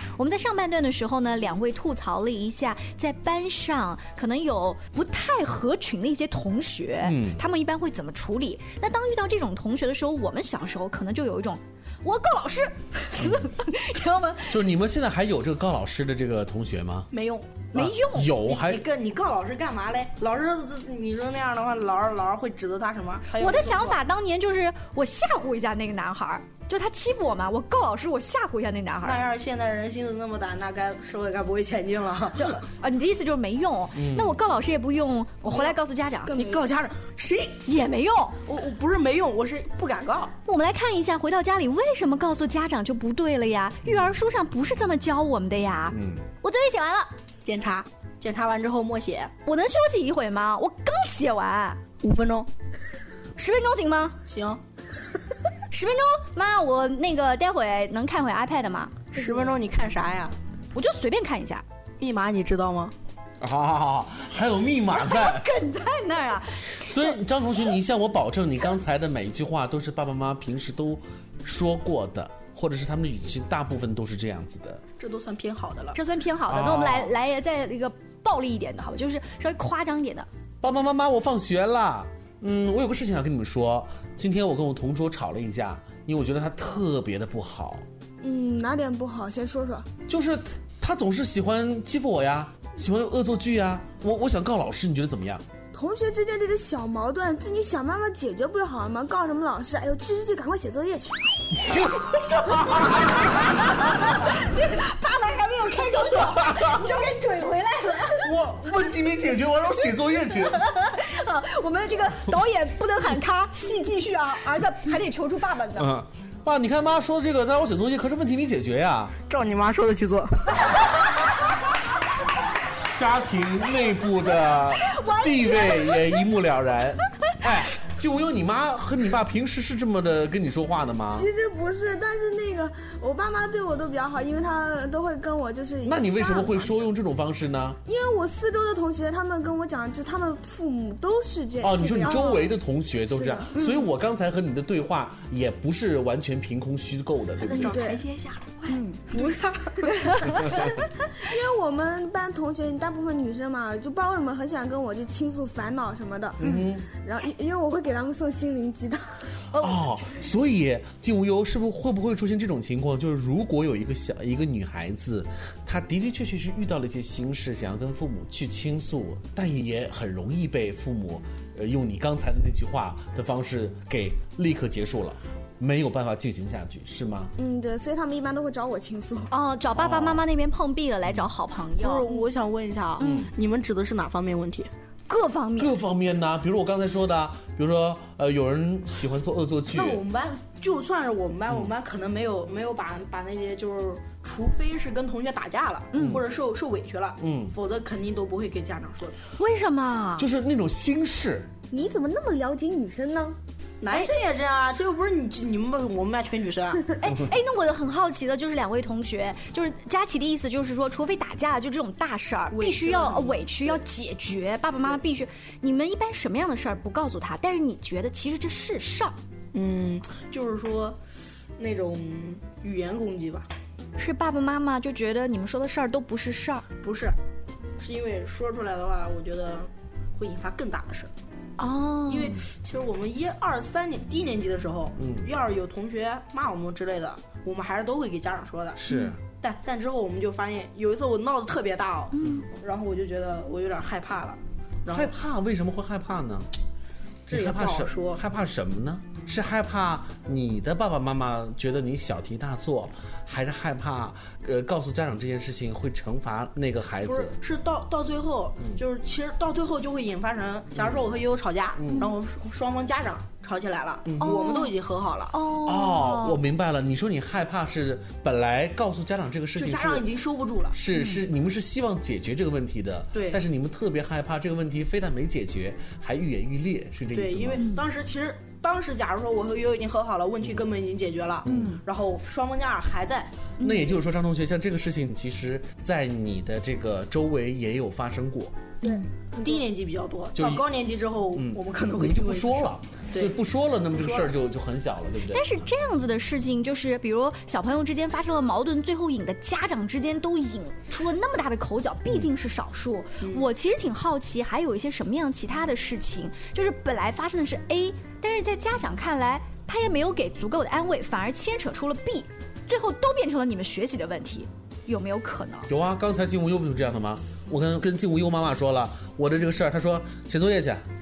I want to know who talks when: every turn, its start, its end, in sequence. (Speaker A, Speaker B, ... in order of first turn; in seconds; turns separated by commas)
Speaker A: 0.2-14.5, Speaker B: 7.0-7.4, Speaker B: 13.2-13.5, Speaker B: 14.5-17.1, Speaker C: 17.1-17.7, Speaker A: 17.7-18.5, Speaker B: 17.7-18.8, Speaker C: 18.5-24.0, Speaker A: 23.4-29.2, Speaker C: 29.0-32.6, Speaker A: 32.4-36.5, Speaker B: 33.9-34.4, Speaker C: 36.3-37.6, Speaker A: 37.6-38.4, Speaker C: 38.4-40.3, Speaker A: 40.5-47.1, Speaker B: 45.9-46.2, Speaker C: 47.4-49.3, Speaker A: 49.4-51.8, Speaker C: 52.0-52.5, Speaker A: 53.4-54.2, Speaker C: 54.3-54.6, Speaker A: 55.7-59.2, Speaker C: 59.1-60.4, Speaker A: 60.7-61.6, Speaker C: 62.0-62.9, Speaker B: 63.4-65.5, Speaker A: 64.9-67.2, Speaker B: 66.8-74.8, Speaker C: 75.0-76.0, Speaker A: 75.9-80.3, Speaker B: 76.5-77.1, Speaker B: 80.6-87.8, Speaker D: 88.2-89.9, Speaker B: 90.1-95.4, Speaker D: 95.7-101.3, Speaker B: 101.6-103.4, Speaker A: 104.3-106.5, Speaker D: 104.8-108.2, Speaker B: 106.2-106.9, Speaker B: 108.2-110.7, Speaker A: 110.5-115.9, Speaker B: 115.8-119.2, Speaker C: 119.2-120.5, Speaker B: 122.9-131.3, Speaker A: 124.9-126.1, Speaker D: 131.1-136.9, Speaker B: 135.8-137.8, Speaker D: 137.8-142.6, Speaker B: 141.6-147.8, Speaker D: 143.1-143.5, Speaker A: 143.5-143.9, Speaker C: 147.4-150.4, Speaker D: 147.6-148.0, Speaker A: 148.7-149.0, Speaker A: 150.1-150.5, Speaker D: 151.2-159.0, Speaker B: 156.4-156.8, Speaker A: 159.5-159.8, Speaker B: 159.6-177.3, Speaker D: 177.4-179.3, Speaker A: 179.3-182.1, Speaker B: 179.7-180.2, Speaker C: 181.8-184.7, Speaker A: 183.0-183.3, Speaker B: 183.0-183.3, Speaker A: 185.1-185.8, Speaker B: 185.6-190.0, Speaker C: 189.7-199.2, Speaker A: 195.9-196.2, Speaker B: 195.9-196.3, Speaker B: 197.2-197.5, Speaker A: 199.4-200.3, Speaker B: 200.2-201.5, Speaker D: 201.7-203.4, Speaker C: 203.8-206.8, Speaker A: 207.0-219.1, Speaker C: 212.5-213.8, Speaker C: 219.5-221.0, Speaker C: 221.6-223.5, Speaker A: 224.0-226.7, Speaker C: 226.8-227.2, Speaker C: 227.8-231.1, Speaker A: 231.6-232.3, Speaker C: 232.1-245.1, Speaker B: 235.0-235.3, Speaker B: 238.8-239.2, Speaker A: 242.1-242.5, Speaker B: 244.9-246.5, Speaker B: 247.3-257.4, Speaker C: 247.3-248.2, Speaker C: 257.0-265.4, Speaker B: 260.8-261.1, Speaker B: 261.8-262.1, Speaker B: 264.1-264.4, Speaker A: 264.2-264.7, Speaker A: 265.3-266.4, Speaker B: 265.6-270.1, Speaker C: 269.6-270.8, Speaker B: 270.7-277.7, Speaker A: 270.9-271.2, Speaker C: 273.1-273.4, Speaker C: 277.1-283.3, Speaker B: 281.4-281.7, Speaker A: 281.4-281.8, Speaker A: 283.6-283.9, Speaker B: 283.6-288.5, Speaker D: 288.8-289.6, Speaker C: 289.4-293.4, Speaker B: 290.3-290.6, Speaker B: 291.3-295.7, Speaker C: 293.9-294.3, Speaker A: 295.3-315.7, Speaker C: 303.2-303.5, Speaker B: 315.7-320.8